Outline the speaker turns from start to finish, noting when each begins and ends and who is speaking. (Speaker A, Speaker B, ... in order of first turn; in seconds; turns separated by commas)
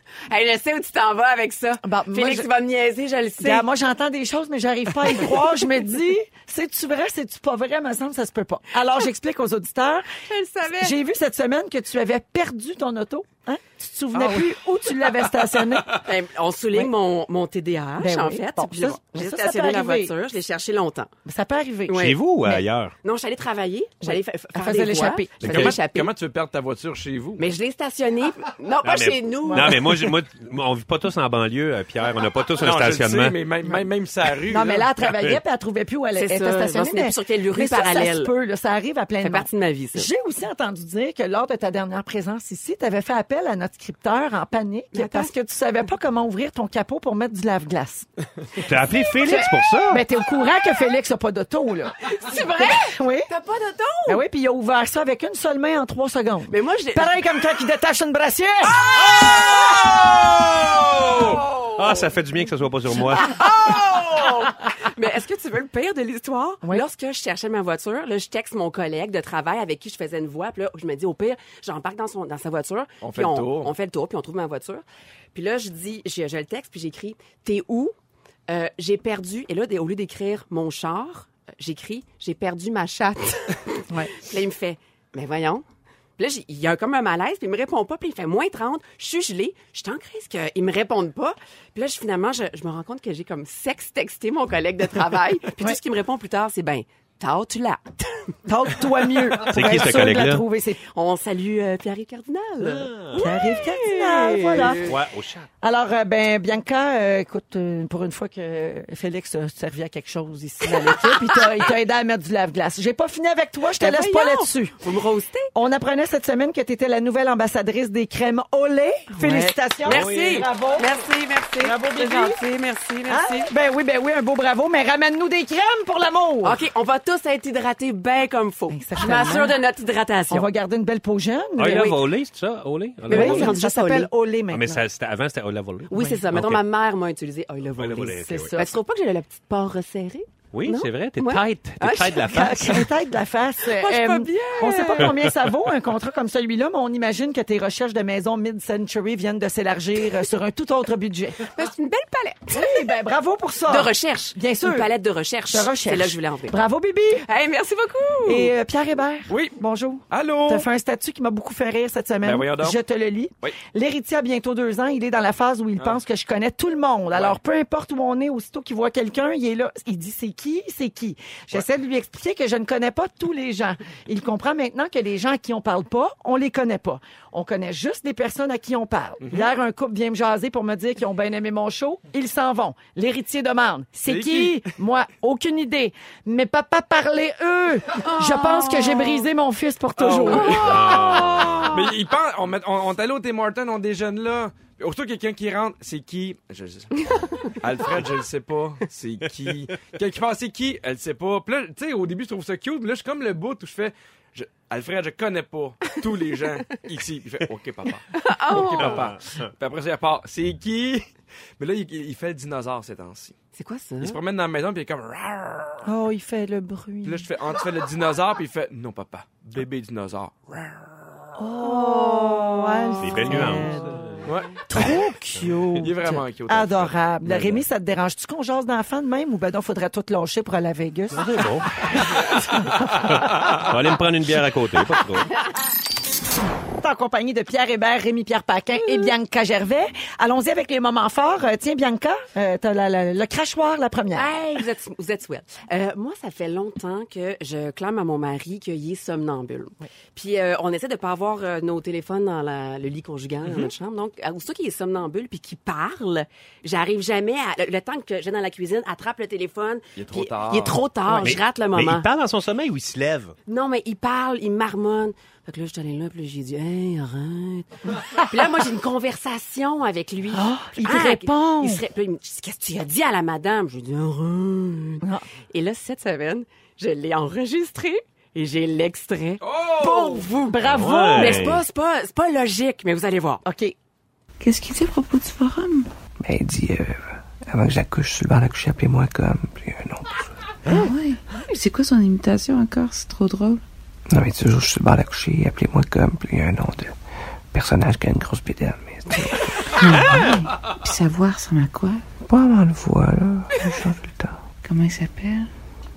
Speaker A: 0.3-3.6, Speaker B: 1.8-2.5, Speaker B: 3.4-10.1, Speaker A: 10.2-10.9, Speaker B: 10.7-16.0, Speaker A: 15.9-21.1, Speaker B: 18.0-20.1, Speaker B: 21.2-22.6, Speaker A: 21.9-22.2, Speaker C: 21.9-22.9, Speaker A: 23.0-26.1, Speaker B: 24.0-25.8, Speaker C: 25.4-25.7, Speaker D: 25.5-27.4, Speaker A: 27.4-29.8, Speaker C: 28.8-33.4, Speaker B: 29.5-29.9, Speaker D: 32.6-34.9, Speaker B: 34.5-48.1, Speaker C: 35.1-35.4, Speaker A: 36.1-38.3, Speaker A: 39.2-40.1, Speaker A: 44.9-45.3, Speaker C: 48.6-50.0, Speaker B: 49.2-53.3, Speaker A: 52.0-54.2, Speaker B: 54.1-58.8, Speaker A: 56.5-57.1, Speaker A: 59.1-59.8, Speaker C: 59.1-63.4, Speaker A: 61.1-61.8, Speaker A: 62.9-77.9, Speaker D: 73.0-73.7, Speaker A: 78.5-85.6, Speaker A: 86.2-98.3, Speaker B: 98.5-100.8, Speaker C: 99.4-100.4, Speaker A: 100.9-104.9, Speaker C: 102.6-103.6, Speaker B: 103.1-104.9, Speaker C: 104.5-105.5, Speaker B: 105.6-114.8, Speaker A: 110.7-111.2, Speaker A: 113.8-115.5, Speaker B: 115.5-121.0, Speaker A: 119.1-123.5, Speaker C: 119.8-120.5, Speaker B: 121.6-122.4, Speaker B: 123.1-126.6, Speaker A: 126.4-130.5, Speaker B: 128.7-129.5, Speaker B: 130.3-132.1, Speaker C: 131.6-133.6, Speaker A: 133.1-134.1, Speaker B: 133.1-134.8, Speaker C: 134.5-136.6, Speaker A: 135.9-142.3, Speaker C: 137.8-138.6, Speaker B: 138.2-138.8, Speaker C: 140.5-142.9, Speaker B: 142.2-151.4, Speaker A: 143.7-145.1, Speaker C: 145.0-145.3, Speaker A: 151.5-152.8, Speaker B: 152.5-154.9, Speaker A: 153.7-156.6, Speaker B: 155.5-157.2, Speaker A: 157.3-158.5, Speaker B: 158.2-191.7, Speaker D: 159.3-159.6, Speaker D: 160.1-160.7, Speaker D: 162.2-162.8, Speaker D: 167.1-167.4, Speaker D: 184.1-184.7, Speaker A: 188.0-189.2, Speaker D: 189.9-191.1, Speaker C: 190.6-191.7, Speaker D: 191.7-213.3, Speaker A: 208.1-209.0, Speaker C: 208.8-209.5, Speaker A: 213.5-214.2, Speaker D: 214.0-215.9, Speaker B: 215.8-217.2, Speaker D: 217.0-221.3, Speaker B: 221.4-224.1, Speaker A: 221.6-223.6, Speaker C: 223.0-224.8, Speaker D: 224.2-225.0, Speaker B: 224.7-233.4, Speaker D: 225.7-227.5, Speaker C: 227.2-227.6, Speaker C: 231.1-235.3, Speaker B: 236.8-244.3, Speaker A: 244.1-262.1, Speaker D: 253.4-253.7, Speaker D: 259.9-260.8, Speaker C: 261.1-263.3, Speaker A: 263.5-280.6, Speaker B: 270.3-271.8, Speaker D: 279.4-280.2, Speaker B: 279.8-281.6, Speaker C: 280.6-281.6, Speaker A: 281.1-283.4, Speaker B: 283.4-283.7, Speaker E: 284.4-285.9, Speaker F: 286.2-290.3, Speaker E: 290.6-293.6, Speaker F: 294.1-296.9, Speaker F: 297.5-300.2, Speaker E: 299.6-302.0, Speaker F: 302.3-304.4, Speaker E: 304.6-305.5